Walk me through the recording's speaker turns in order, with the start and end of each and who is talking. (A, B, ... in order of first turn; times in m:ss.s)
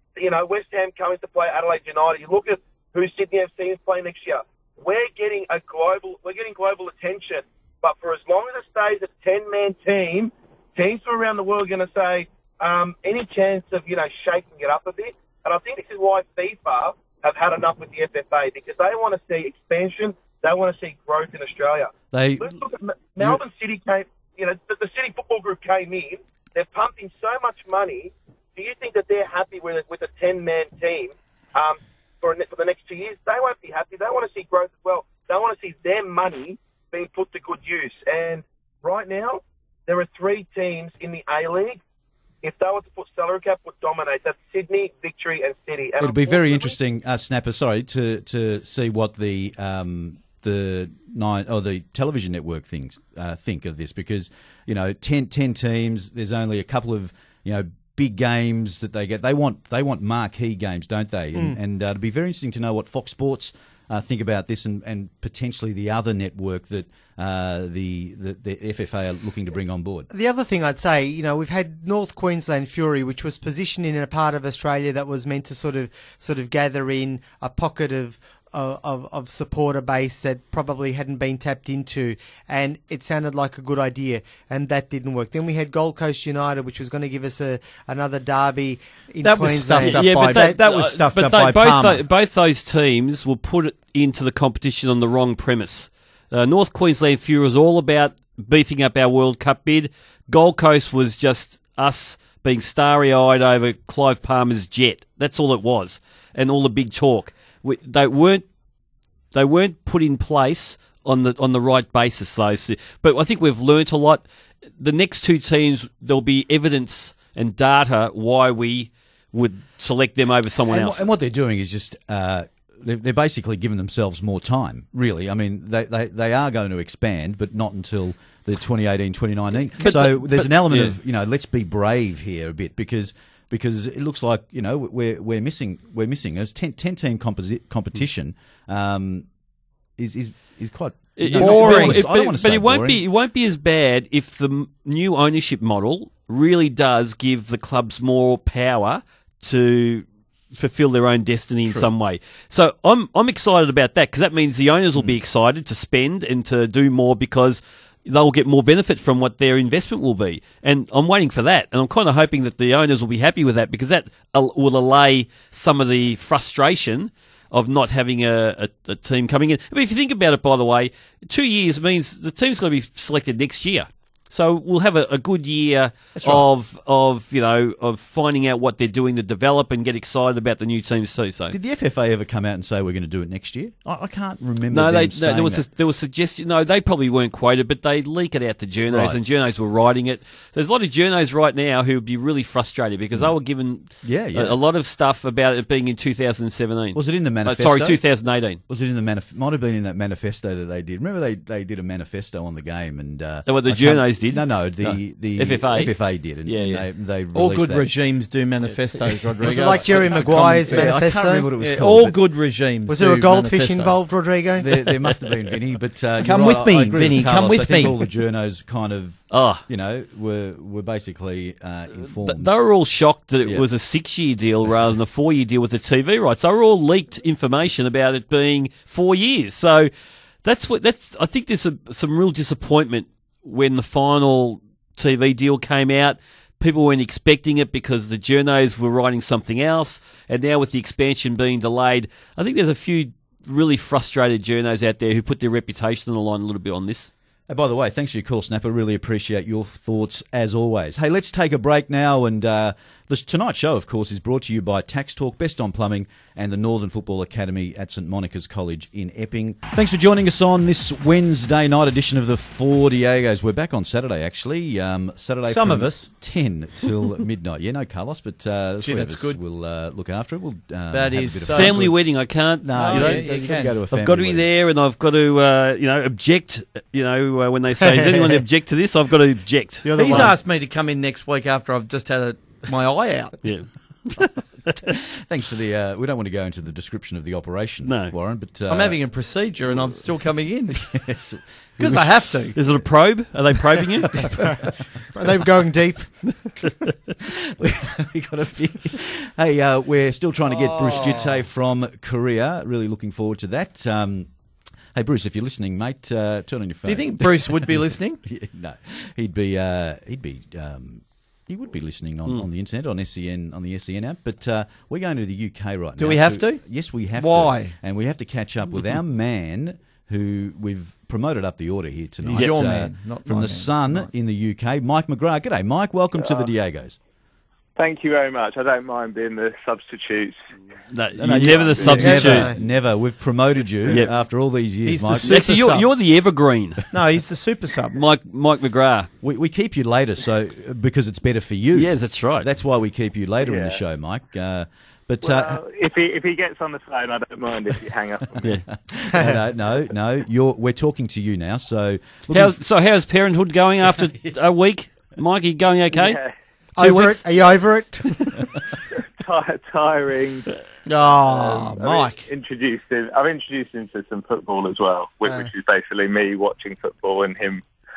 0:00.2-0:41.8 A
0:22.1-0:22.6 B
0:42.4-0:46.8 A
0:46.0-1:10.1 B
1:10.1-1:30.6 C
1:29.2-1:32.0 D
1:29.8-1:48.4 E
1:49.3-1:54.2 E
1:54.8-2:01.0 E
2:00.7-2:19.3 B
2:09.8-2:11.0 E
2:20.0-2:23.0 B
2:21.2-3:01.6 E
2:21.4-2:22.0 D
2:56.2-2:56.5 B
3:01.5-3:05.7 B
3:04.7-3:18.6 E
3:08.9-3:09.2 B
3:13.1-3:14.6 B
3:16.9-3:27.9 B
3:23.5-3:26.9 E
3:27.3-3:31.0 D
3:29.3-3:32.2 B
3:29.4-3:31.5 C
3:31.6-3:34.0 D
3:32.9-3:35.0 C
3:34.6-3:42.5 B
3:36.2-3:38.0 D
3:39.3-3:39.6 E
3:42.0-3:49.9 E
3:50.4-4:07.1 E
4:07.5-4:32.0 B
4:25.4-4:26.1 D
4:28.8-4:29.4 D
4:30.9-4:31.9 D
4:31.5-4:40.3 E
4:32.6-4:34.5 B
4:32.8-4:33.8 D
4:39.8-4:40.4 C
4:40.0-4:43.4 D
4:43.4-4:44.7 E
4:45.2-4:49.1 B
4:47.9-4:48.1 E
4:48.7-4:50.9 D
4:49.7-4:50.0 B
4:50.7-4:52.7 B
4:51.8-4:52.6 D
4:52.5-4:54.2 E
4:55.1-4:56.4 C
4:57.6-5:04.3 B
5:00.5-5:01.3 D
5:04.9-5:27.0 B
5:06.9-5:08.2 D
5:16.0-5:17.8 D
5:22.2-5:24.1 D
5:26.2-5:26.5 F
5:27.8-5:30.4 F
5:30.9-5:32.5 E
5:31.2-5:35.6 B
5:31.9-5:32.4 D
5:32.0-5:32.6 C
5:34.8-5:35.9 D
5:35.2-5:36.8 E
5:36.9-5:38.0 D
5:37.9-5:39.1 E
5:39.2-5:45.6 B
5:41.7-5:42.5 E
5:43.4-5:43.8 F
5:45.2-5:48.4 F
5:48.4-5:52.6 B
5:52.3-5:56.2 E
5:55.9-5:56.3 F
5:56.8-5:58.2 C
5:56.8-5:57.2 E
5:59.0-6:00.5 F
6:00.9-6:02.3 D
6:01.3-6:01.9 B
6:01.8-6:07.6 F